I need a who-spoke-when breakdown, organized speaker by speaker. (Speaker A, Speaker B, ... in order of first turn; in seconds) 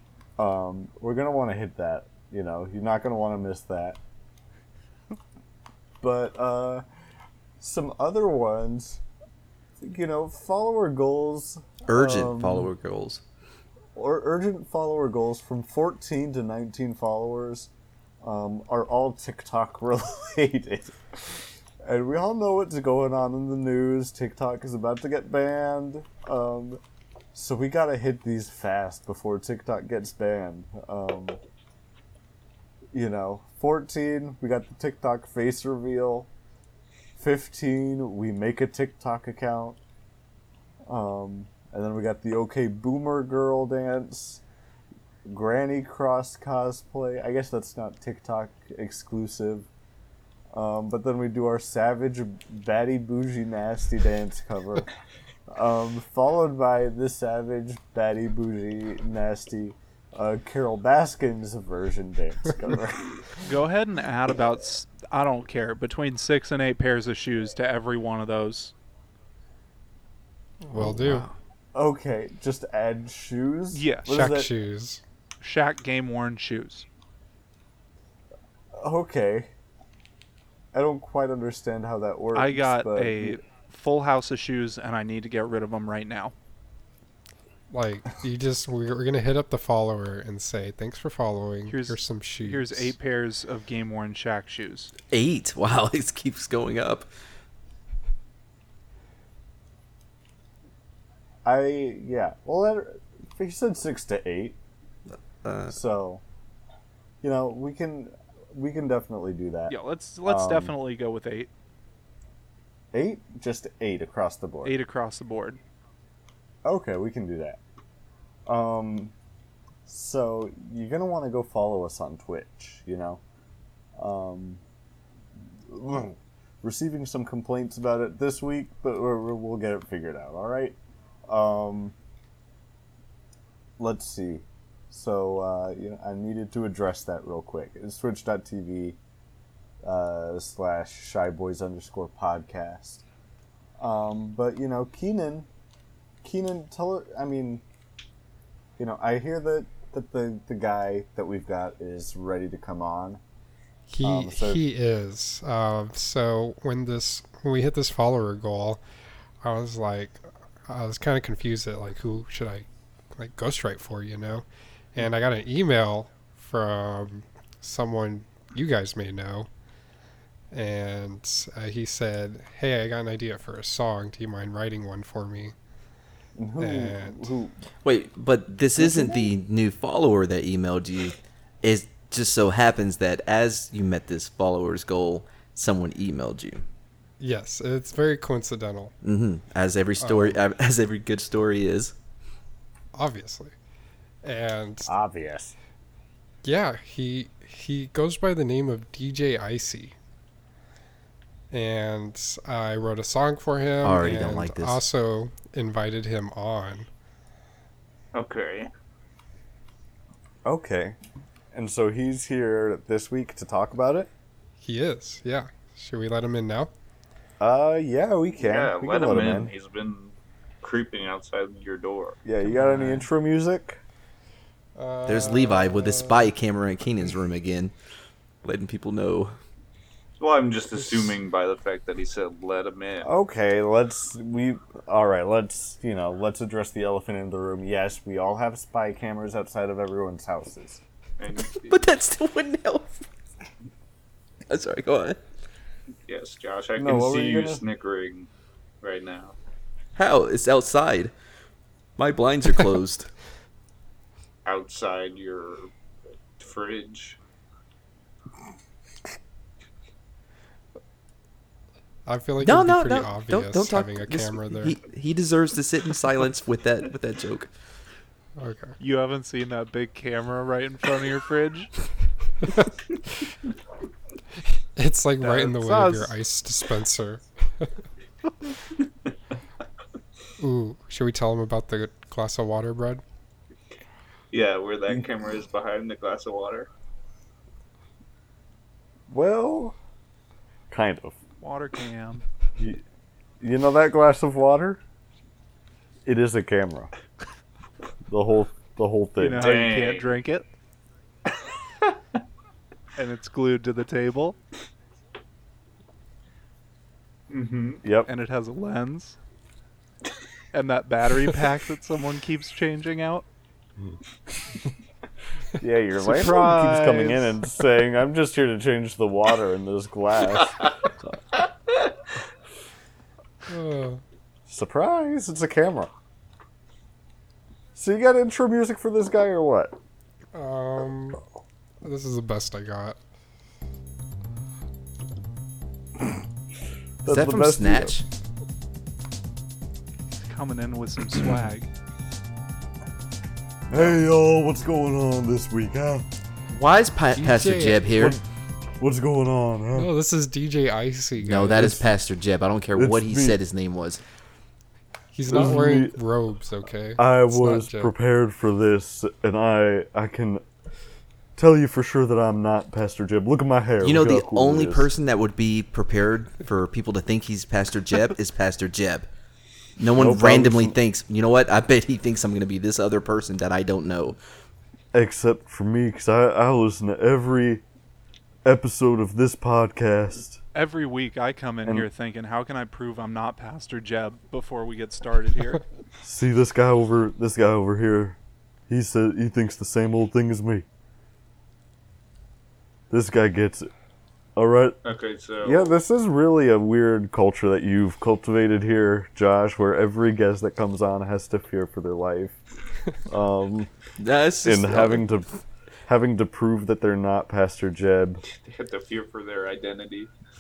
Speaker A: 0.4-4.0, 6.0-6.8, 7.6-9.0, 9.8-12.7, 13.9-17.7, 18.2-21.0, 21.8-26.8, 27.3-31.4, 32.9-36.3, 37.2-39.8, 40.9-44.4, 45.2-49.7, 50.5-54.9, 55.5-63.4, 71.7-74.5, 78.8-79.5, 80.7-83.4, 101.5-104.6, 105.7-106.2, 107.2-110.7, 112.9-114.8, 116.7-117.6, 118.5-119.1, 119.9-123.2, 124.0-124.6, 125.7-131.9, 133.8-139.0, 139.8-143.0, 143.8-145.5, 146.2-147.6, 148.8-153.2, 154.0-154.6, 176.4-177.6, 178.8-179.3, 194.9-195.6, 210.4-211.0, 211.5-214.1, 217.4-219.5, 222.2-223.8, 233.0-240.8, 246.8-247.6, 289.1-289.8, 290.7-291.2, 293.4-294.8, 296.1-296.9, 298.1-299.6, 307.8-308.1, 315.6-320.6, 324.5-325.9, 327.8-329.8, 337.0-338.0, 343.7-346.1, 348.8-349.9, 352.8-353.4, 355.3-356.0, 357.0-360.4, 361.4-364.9, 369.9-370.8, 374.9-377.6, 378.4-380.4, 386.0-388.2, 388.7-390.7, 392.9-393.7, 394.4-394.8, 395.4-402.4, 403.1-403.7, 404.4-405.3, 405.9-408.2
Speaker B: 11.9-13.2, 70.7-71.3, 95.1-97.1, 105.3-105.8, 177.8-186.6, 189.0-191.9, 203.8-204.8, 225.1-227.7, 228.4-229.4, 241.6-243.0, 244.5-245.2, 250.0-251.1, 252.0-253.1, 262.4-267.5, 337.1-338.1, 346.5-348.2, 351.2-354.0, 363.8-369.1, 369.8-374.2, 404.0-405.1
Speaker C: 63.4-68.7, 73.7-74.2, 75.4-76.9, 82.3-86.3, 91.7-94.9, 109.7-111.5, 114.6-115.6, 268.8-271.7, 275.2-276.1, 291.4-292.2, 299.2-300.5, 303.0-304.4, 308.1-309.2, 310.5-313.3, 316.0-317.3, 340.2-341.7, 380.5-385.6
Speaker D: 70.6-71.3, 74.1-75.0, 87.7-92.9, 153.9-158.8, 159.4-169.5, 170.5-175.6, 176.6-177.3, 187.2-188.9, 190.0-190.4, 192.9-193.6, 194.2-194.9, 196.4-199.9, 201.5-206.9, 214.6-216.7, 222.5-223.0, 224.8-226.3, 262.1-264.8, 268.4-268.8, 272.4-272.8, 274.8-277.7, 280.4-283.0, 323.5-324.0, 330.3-331.2, 331.8-333.0, 347.2-348.0, 349.8-351.9, 355.1-357.9
Speaker E: 208.1-208.7, 218.4-222.2, 230.2-233.1, 241.2-241.8, 246.1-248.3, 248.8-249.3, 254.4-255.7, 256.4-257.2, 284.3-286.7, 299.4-300.1, 307.3-307.8, 394.8-395.7, 408.3-410.1